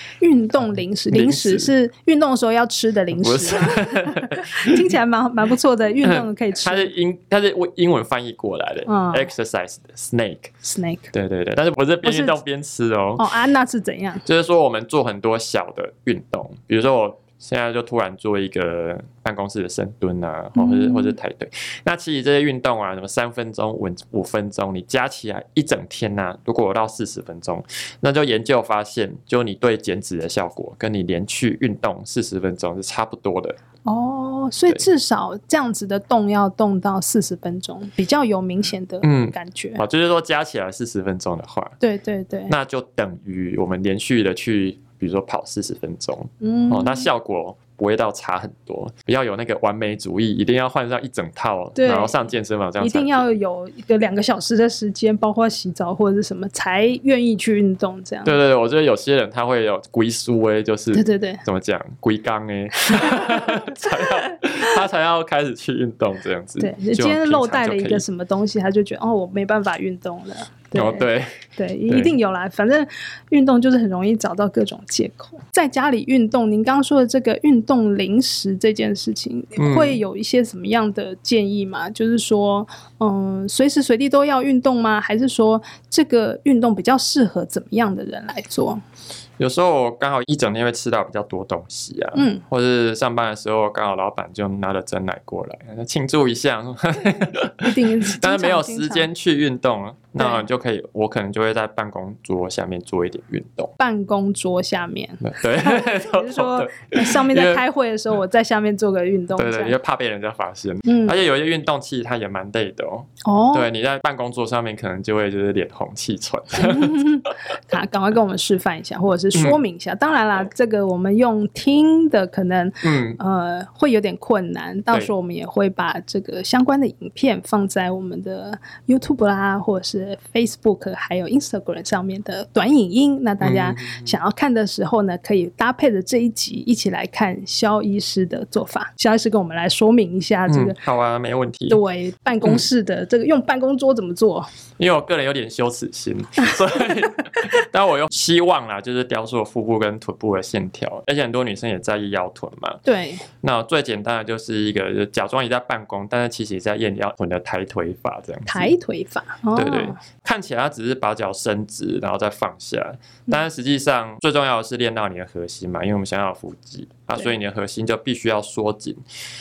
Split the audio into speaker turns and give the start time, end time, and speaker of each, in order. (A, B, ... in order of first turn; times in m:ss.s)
0:00.2-0:06.9 A
0:01.1-0:01.7 B
0:03.2-0:04.9 B
0:06.0-0:10.5 B
0:08.9-0:09.3 A
0:10.6-0:11.1 A
0:11.1-0:13.2 B
0:12.0-0:12.4 A
0:13.2-0:14.2 A
0:14.2-0:33.6 B
0:20.6-0:21.1 A
0:33.8-0:39.8 A
0:39.0-0:41.7 B
0:41.8-0:42.5 A
0:42.5-0:53.2 B
0:46.4-0:47.1 A
0:51.8-0:52.2 A
0:52.8-0:58.4 A
0:58.2-1:08.0 B
1:00.9-1:01.4 A
1:02.9-1:04.4 A
1:06.6-1:28.8 A
1:10.7-1:12.2 B
1:19.6-1:20.0 B
1:29.4-1:43.7 B
1:32.1-1:32.4 A
1:37.6-1:39.1 A
1:40.2-1:40.4 A
1:43.8-1:49.7 A
1:45.2-1:47.6 B
1:49.3-1:57.2 B
1:50.8-1:51.2 A
1:53.2-1:53.7 A
1:56.6-2:20.8 A
1:59.3-1:59.6 B
2:02.8-2:03.2 B
2:13.4-2:14.2 B
2:20.5-2:21.8 B
2:21.7-2:24.5 A
2:24.8-2:32.8 B
2:32.8-2:33.2 A
2:33.3-2:38.7 B
2:38.5-2:40.0 A
2:39.5-2:49.0 B